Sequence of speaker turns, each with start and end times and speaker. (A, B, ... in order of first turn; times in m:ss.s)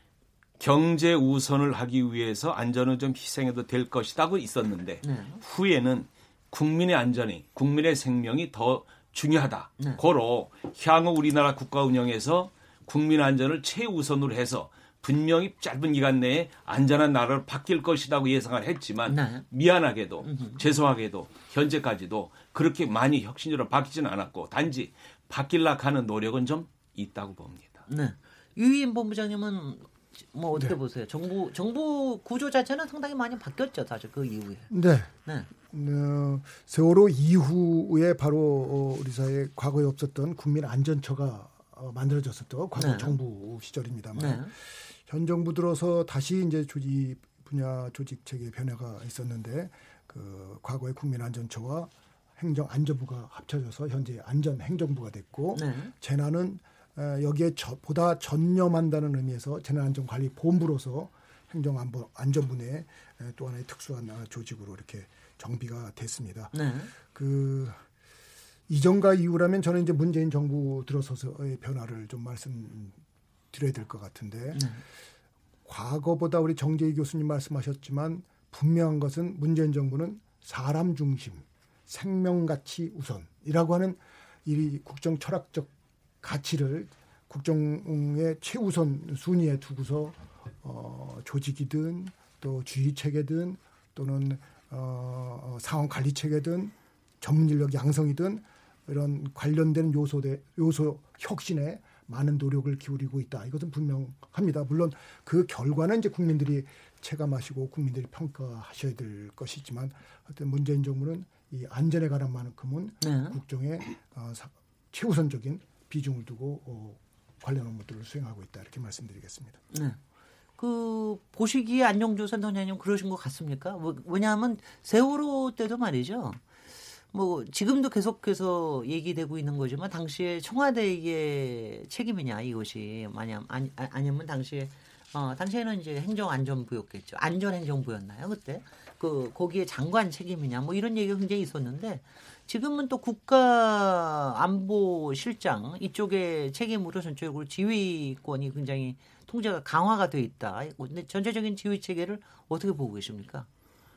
0:00.6-0:27.8 A
0:05.0-0:05.4 B
0:19.1-0:19.5 B
0:20.2-0:20.6 B
0:27.9-0:34.7 B
0:34.7-0:35.1 C
0:35.6-1:07.8 C
0:42.8-0:43.2 B
0:44.1-0:44.5 B
0:55.5-0:55.9 B
1:06.5-1:06.9 B
1:08.7-1:13.0 C
1:13.5-1:14.7 C
1:14.5-1:14.8 B
1:15.6-1:25.7 C
1:26.2-1:59.6 C
1:53.0-1:53.4 B
1:59.7-2:00.0 B
2:00.6-2:06.4 B
2:07.1-2:33.5 B